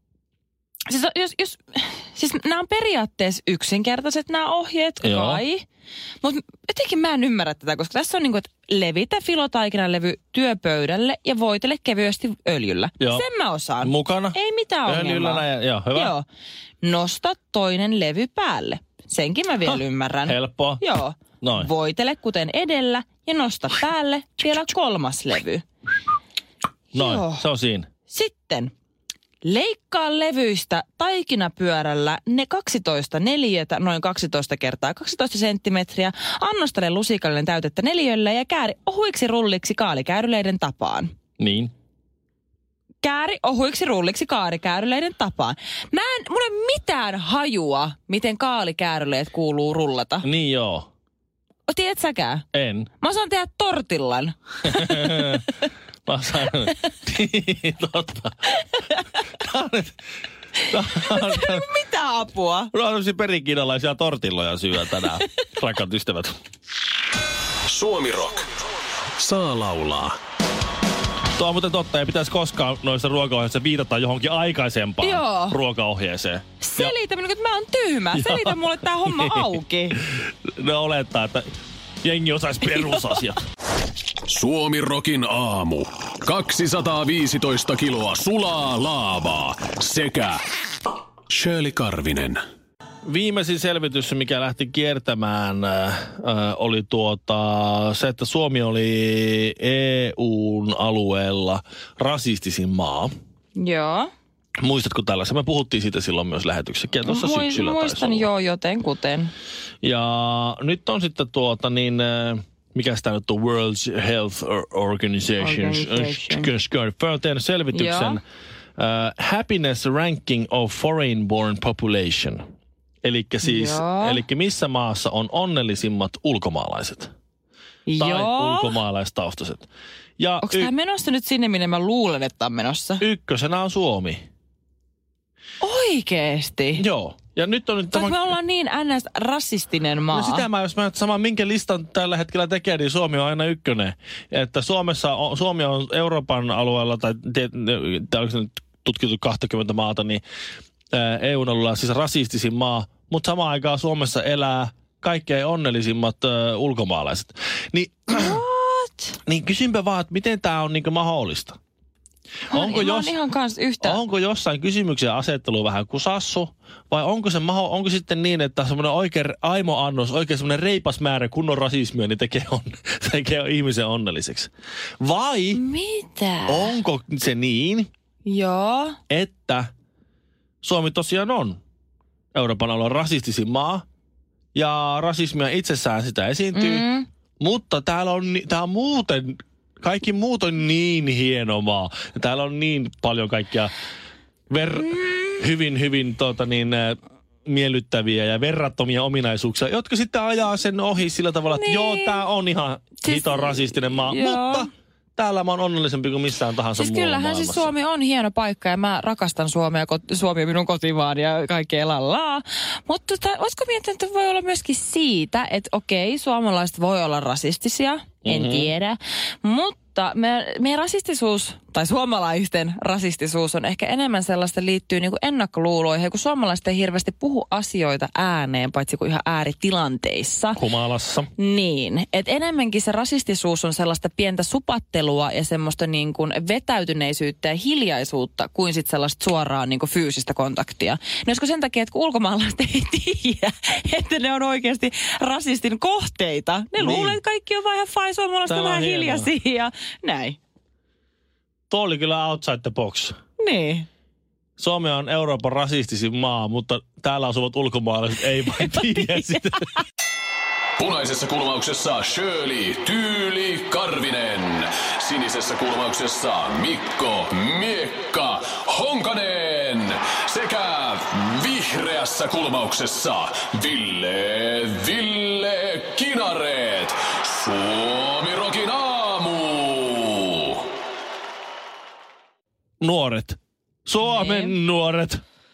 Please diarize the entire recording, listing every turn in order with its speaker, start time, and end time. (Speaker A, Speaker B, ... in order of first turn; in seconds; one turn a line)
Speaker A: 0.9-5.6
Speaker B: 5.0-5.4
Speaker A: 6.2-16.3
Speaker B: 13.0-13.2
Speaker B: 13.8-16.1
Speaker A: 16.8-25.6
Speaker B: 20.2-20.8
Speaker B: 21.4-21.7
Speaker A: 26.9-27.4
Speaker B: 26.9-27.9
Speaker A: 28.1-28.7
Speaker A: 29.4-41.1
Speaker B: 41.4-41.7
Speaker A: 43.0-50.3
Speaker B: 50.2-50.9
Speaker A: 51.7-52.5
Speaker B: 52.5-52.9
Speaker A: 53.0-55.4
Speaker B: 54.6-55.5
Speaker B: 56.0-58.5
Speaker B: 59.4-60.0
Speaker B: 60.7-61.7
Speaker A: 61.0-62.7
Speaker B: 62.7-66.3
Speaker C: 67.7-68.5
Speaker C: 69.2-70.2
Speaker B: 71.4-77.0
Speaker A: 75.0-75.6
Speaker A: 76.6-80.0
Speaker B: 78.1-81.4
Speaker B: 82.0-83.4
Speaker C: 84.3-90.4
Speaker C: 91.3-92.4
Speaker B: 93.0-103.1
Speaker A: 103.5-104.1
Speaker B: 104.6-108.3
Speaker A: 107.0-109.3
Speaker B: 109.8-118.2
Speaker A: 115.4-116.5
Speaker A: 117.7-118.2
Speaker B: 118.8-122.4
Speaker B: 123.0-127.1
Speaker A: 123.4-124.2
Speaker A: 127.8-128.8
Speaker B: 128.0-129.7
Speaker B: 130.2-130.7
Speaker A: 130.4-133.0
Speaker B: 133.0-134.2
Speaker A: 135.6-136.8
Speaker B: 136.8-138.3
Speaker A: 137.9-140.5
Speaker B: 140.1-150.2
Speaker B: 150.9-158.4
Speaker A: 158.1-159.2
Speaker B: 159.2-161.6
Speaker B: 162.5-163.2
Speaker A: 162.5-164.0
Speaker B: 163.8-175.6
Speaker A: 175.5-176.8
Speaker B: 176.5-177.9
Speaker A: 178.2-179.0
Speaker B: 179.1-179.7
Speaker B: 180.6-181.6
Speaker B: 182.3-183.8
Speaker B: 184.5-186.9
Speaker A: 186.5-187.1
Speaker B: 187.4-193.7
Speaker B: 194.5-207.7
Speaker A: 201.5-202.2
Speaker A: 203.0-204.7
Speaker A: 206.8-230.6
Speaker B: 218.2-218.7
Speaker B: 230.6-231.3
Speaker A: 231.4-250.4
Speaker B: 246.8-247.2
Speaker B: 248.4-249.3
Speaker B: 251.7-253.1
Speaker A: 253.4-253.9
Speaker B: 254.6-259.7
Speaker A: 258.5-259.8
Speaker C: 260.8-280.6
Speaker B: 282.8-285.2
Speaker A: 284.0-284.6